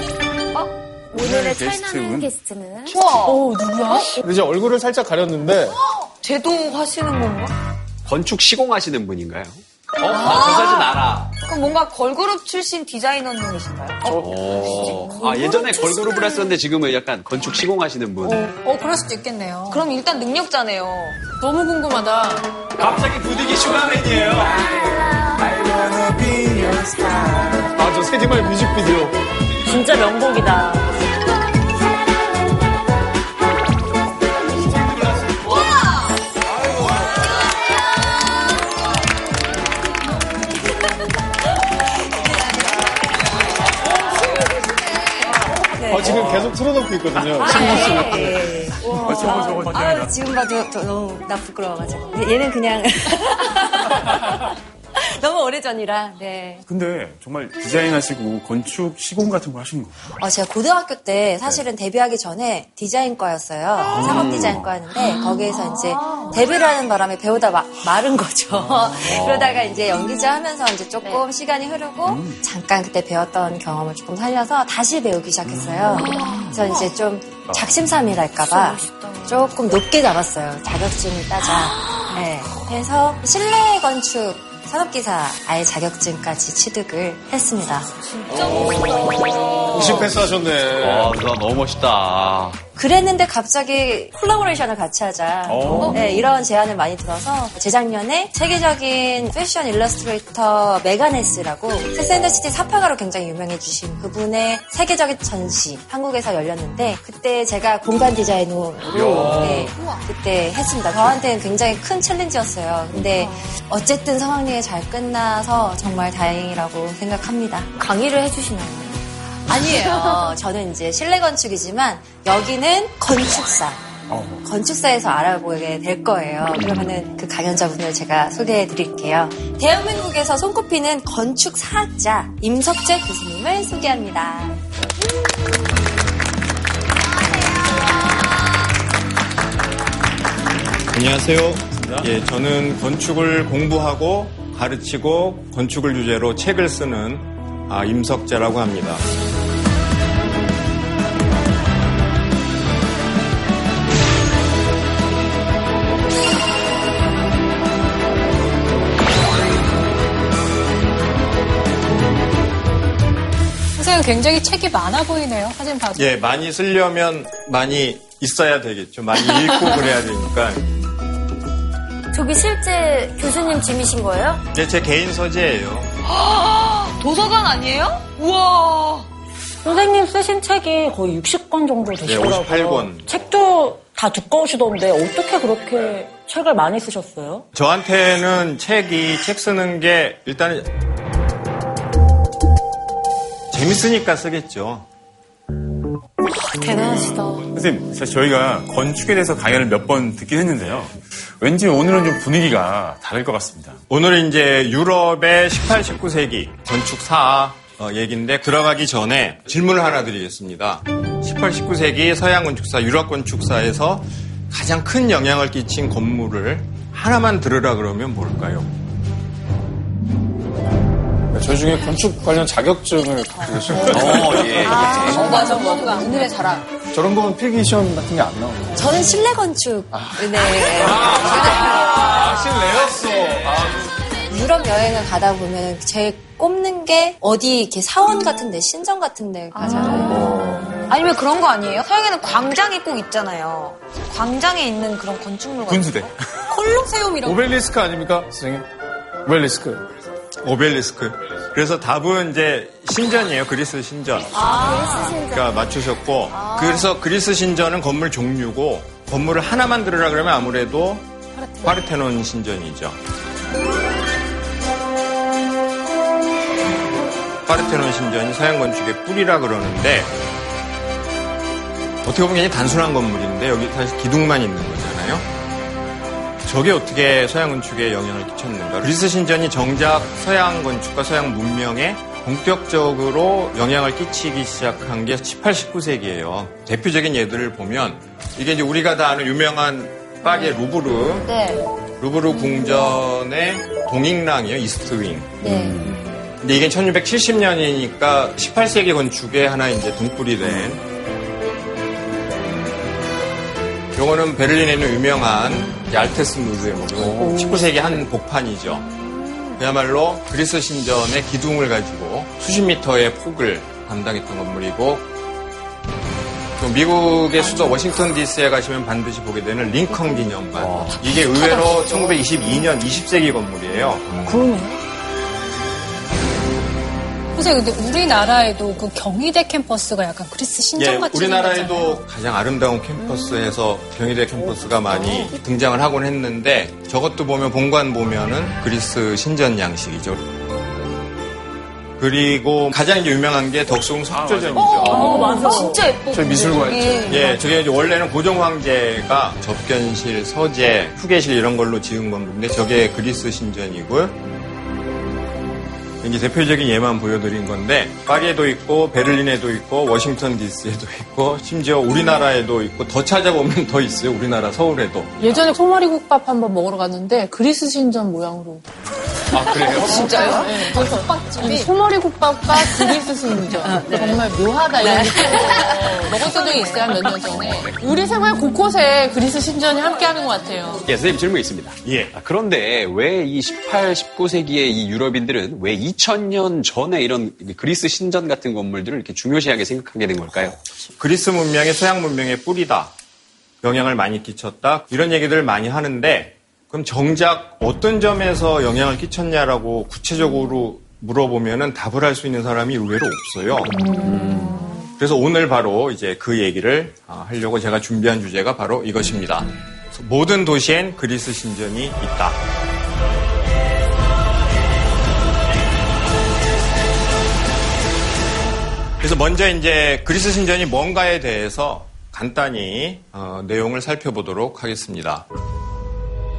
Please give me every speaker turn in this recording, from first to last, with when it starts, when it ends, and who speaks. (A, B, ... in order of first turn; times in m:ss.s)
0:01.1-0:02.9 A
0:01.1-0:02.3 B
0:02.8-0:03.5 C
0:03.2-0:04.2 D
0:03.3-0:04.0 E
0:04.2-0:05.8 F
0:05.7-0:07.5 C
0:08.0-0:11.3 G
0:10.1-0:16.2 C
0:14.0-0:15.2 F
0:14.1-0:18.5 G
0:18.3-0:19.8 E
0:19.7-0:21.2 C
0:21.4-0:22.5 D
0:22.8-0:29.2 F
0:29.6-0:31.0 H
0:34.8-0:35.3 F
0:36.4-0:37.3 F
0:44.0-0:44.8 C
0:45.7-0:46.4 A
0:45.8-0:48.7 F
0:46.1-0:46.5 B
0:47.2-0:56.6 A
0:48.8-0:50.1 B
0:56.7-1:00.1 B
1:00.2-1:27.9 A
1:03.9-1:04.6 B
1:03.9-1:04.7 G
1:05.2-1:06.3 C
1:09.1-1:09.3 G
1:09.1-1:09.5 B
1:12.0-1:12.4 B
1:15.9-1:16.9 C
1:17.5-1:17.8 B
1:18.5-1:19.3 C
1:21.4-1:22.2 C
1:28.3-1:30.0 C
1:28.3-1:29.1 F
1:29.7-1:31.2 F
1:29.7-1:30.1 G
1:30.8-1:32.6 G
1:32.8-1:57.7 A
1:35.5-1:36.0 B
1:35.6-1:35.9 G
1:35.7-1:36.1 C
1:48.9-1:49.5 G
1:49.0-1:49.7 F
1:49.2-1:49.6 B
1:49.6-1:50.0 D
1:57.8-1:59.0 C
1:59.4-2:03.9 A
1:59.5-2:00.3 C
2:04.1-2:04.4 B
2:04.4-2:14.6 A
2:06.6-2:07.0 B
2:20.9-2:29.1 I
2:21.8-2:22.1 B
2:43.8-2:46.1 E
2:45.9-2:50.7 I
2:52.1-2:54.4 A
2:54.5-2:55.9 I
2:56.0-2:59.1 C
2:59.6-3:07.4 H
3:02.0-3:03.1 I
3:07.5-3:10.7 I
3:13.5-3:14.9 I
3:16.3-3:17.4 C
3:17.5-3:23.8 B
3:23.9-3:38.7 I
3:41.3-3:45.3 F
3:43.9-3:45.3 G
3:44.0-3:46.6 C
3:45.0-3:46.1 E
3:45.5-3:46.1 D
3:46.9-3:49.0 F
3:48.7-3:52.3 A
3:49.9-3:54.0 F
3:54.2-4:00.7 A
3:59.6-4:06.1 C
3:59.6-4:00.9 F
4:05.6-4:06.1 B
4:06.5-4:07.5 E
4:07.2-4:08.7 F
4:09.2-4:09.9 F
4:10.4-4:14.4 I
4:14.3-4:15.2 C
4:14.3-4:15.7 A
4:15.3-4:21.1 I
4:16.3-4:16.9 C
4:21.4-4:21.8 E
4:21.6-4:23.0 I
4:27.4-4:30.1 I
4:32.0-4:35.2 I
4:36.4-4:51.3 I
4:51.2-4:51.6 C
4:52.0-4:55.4 I
4:55.4-4:56.0 G
4:55.4-4:55.7 C
4:56.4-5:00.8 I
5:03.9-5:08.8 I
5:07.1-5:07.6 H
5:09.6-5:15.1 I
5:16.6-5:24.3 I
5:20.6-5:21.0 G
5:21.4-5:21.7 H
5:24.2-5:24.8 H
5:27.3-5:32.0 E
5:30.8-5:40.2 I
5:34.9-5:35.3 H
5:42.0-5:45.1 I
5:44.1-5:45.0 B
5:44.6-5:47.4 C
5:44.8-5:45.5 F
5:44.8-5:45.8 H
5:46.1-5:47.4 F
5:47.1-5:54.1 I
5:56.0-6:05.4 I
6:05.2-6:08.6 D
6:09.3-6:10.1 F
6:09.4-6:10.8 C
6:09.7-6:20.8 D
6:09.8-6:11.7 E
6:14.8-6:16.1 A
6:20.8-6:30.6 G
6:21.8-6:22.1 I
6:31.0-6:32.9 I
6:33.6-6:43.7 I
6:43.7-6:44.9 D
6:44.0-6:44.5 G
6:45.0-6:52.4 I
6:59.0-7:05.2 I